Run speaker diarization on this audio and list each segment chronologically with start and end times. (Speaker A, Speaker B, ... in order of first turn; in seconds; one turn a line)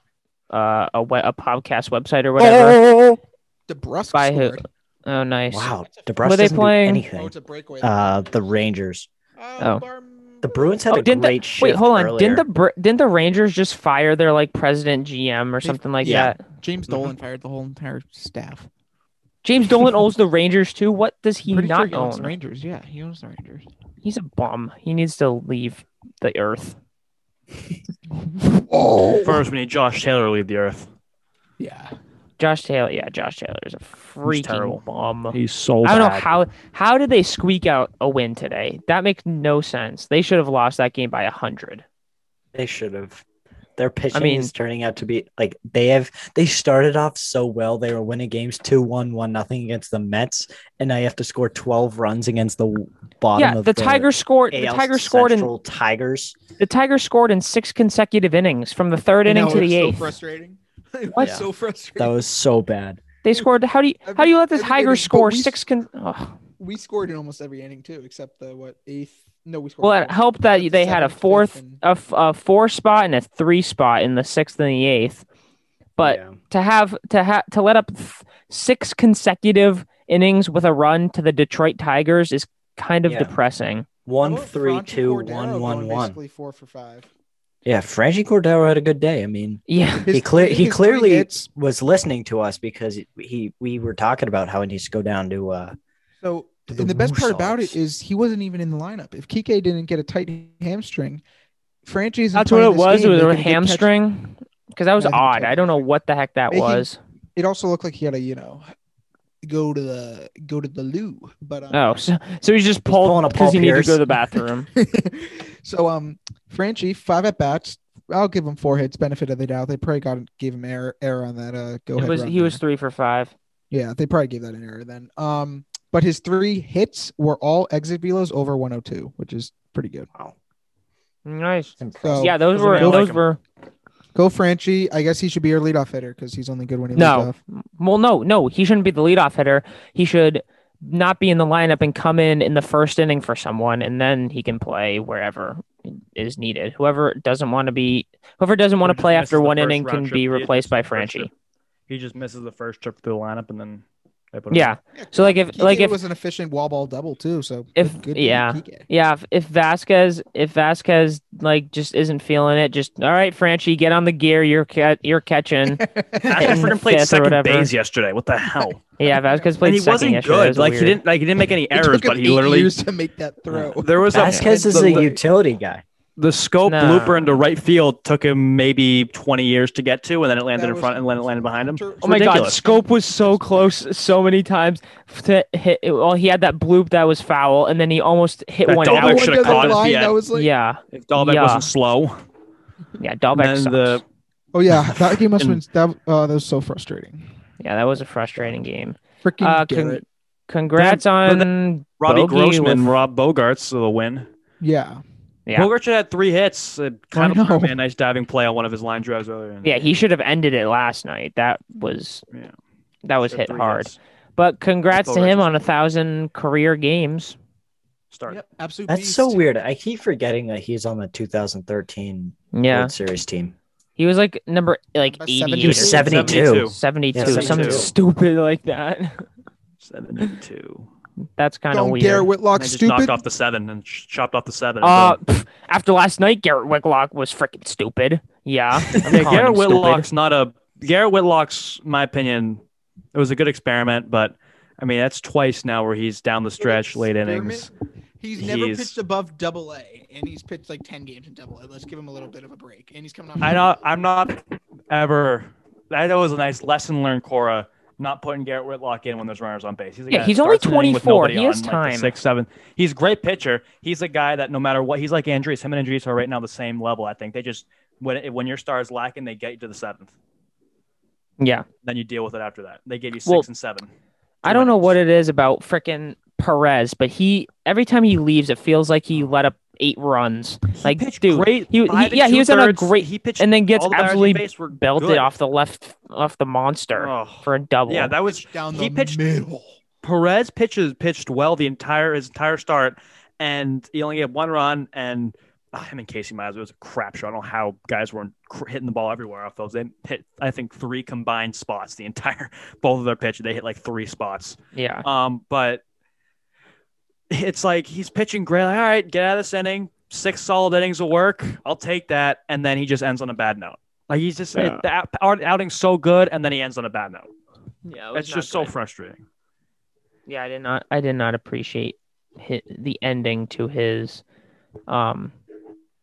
Speaker A: 0.5-2.8
Speaker B: 2.4-4.7
Speaker A: 4.1-5.7
Speaker C: 5.5-9.1
Speaker A: 6.2-7.0
Speaker B: 7.1-8.0
Speaker B: 9.4-10.8
Speaker A: 9.6-9.8
Speaker C: 10.4-12.4
Speaker A: 10.9-16.4
Speaker B: 15.6-18.7
Speaker C: 16.0-16.3
Speaker C: 16.9-17.1
Speaker A: 19.4-22.3
Speaker B: 21.5-23.6
Speaker A: 24.0-26.8
Speaker B: 28.2-29.4
Speaker D: 29.1-30.9
Speaker B: 31.6-31.9
Speaker A: 32.4-41.8
Speaker D: 34.2-36.3
Speaker C: 42.5-43.2
Speaker C: 43.8-56.4
Speaker A: 44.1-44.5
Speaker A: 53.4-55.5
Speaker A: 56.6-60.1
Speaker B: 59.2-62.1
Speaker C: 61.2-63.0
Speaker A: 63.2-66.3
Speaker B: 64.0-65.6
Speaker B: 66.6-71.8
Speaker A: 69.8-75.2
Speaker A: 76.0-83.9
Speaker C: 76.0-76.4
Speaker C: 83.0-83.3
Speaker C: 84.0-86.2
Speaker B: 84.2-87.1
Speaker C: 87.6-95.8
Speaker A: 89.7-90.1
Speaker B: 90.0-91.5
Speaker B: 96.2-101.2
Speaker C: 96.7-97.8
Speaker B: 101.8-103.9
Speaker A: 102.3-107.0
Speaker B: 105.0-105.7
Speaker B: 106.5-108.7
Speaker B: 109.4-111.8
Speaker A: 111.7-114.7
Speaker C: 112.9-114.0
Speaker B: 114.8-122.6
Speaker A: 121.9-123.3
Speaker B: 123.7-130.1
Speaker A: 131.2-133.4
Speaker C: 131.8-132.3
Speaker B: 132.0-133.1
Speaker D: 132.5-133.2
Speaker B: 134.1-137.4
Speaker A: 136.9-151.3
Speaker D: 148.8-151.3
Speaker D: 151.9-154.7
Speaker A: 154.5-156.0
Speaker B: 154.9-158.8
Speaker A: 157.8-165.8
Speaker B: 165.8-166.6
Speaker D: 166.2-168.8
Speaker A: 166.4-167.7
Speaker A: 169.0-171.0
Speaker B: 169.1-169.4
Speaker D: 169.6-172.8
Speaker B: 171.7-175.2
Speaker C: 173.5-175.8
Speaker D: 173.8-175.1
Speaker A: 174.2-174.5
Speaker D: 176.2-182.6
Speaker A: 176.7-177.4
Speaker B: 180.5-183.4
Speaker A: 182.0-189.8
Speaker D: 188.7-190.2
Speaker B: 188.8-190.5
Speaker A: 190.3-191.7
Speaker D: 190.9-192.2
Speaker A: 193.0-194.0
Speaker D: 193.3-194.0
Speaker B: 194.5-197.2
Speaker D: 194.9-195.6
Speaker A: 197.6-202.9
Speaker B: 199.2-200.0
Speaker D: 200.8-204.3
Speaker B: 204.6-205.0
Speaker D: 205.5-209.9
Speaker B: 207.1-207.7
Speaker A: 209.6-212.2
Speaker A: 213.0-217.4
Speaker D: 213.3-214.0
Speaker D: 214.9-215.5
Speaker D: 218.1-218.4
Speaker B: 218.3-219.4
Speaker C: 218.9-223.5
Speaker A: 222.5-222.9
Speaker A: 224.0-229.2
Speaker B: 225.0-226.5
Speaker C: 225.6-227.9
Speaker D: 225.9-227.9
Speaker D: 229.8-230.9
Speaker A: 231.4-232.3
Speaker B: 231.7-233.2
Speaker D: 232.5-235.2
Speaker A: 234.8-240.1
Speaker C: 238.9-239.3
Speaker D: 239.0-242.6
Speaker D: 243.1-247.7
Speaker B: 246.6-247.7
Speaker B: 248.2-253.7
Speaker D: 248.4-248.9
Speaker D: 253.4-270.1
Speaker A: 260.1-262.1
Speaker A: 271.4-271.6
Speaker D: 271.8-273.9
Speaker D: 274.4-275.0
Speaker A: 274.4-288.1
Speaker D: 280.8-285.3
Speaker D: 286.9-289.2
Speaker B: 288.2-289.7
Speaker D: 290.0-305.8
Speaker A: 304.7-305.0
Speaker D: 307.3-317.3
Speaker A: 314.6-314.8
Speaker A: 317.9-318.7
Speaker D: 318.1-319.2
Speaker A: 320.3-324.2
Speaker A: 324.9-325.3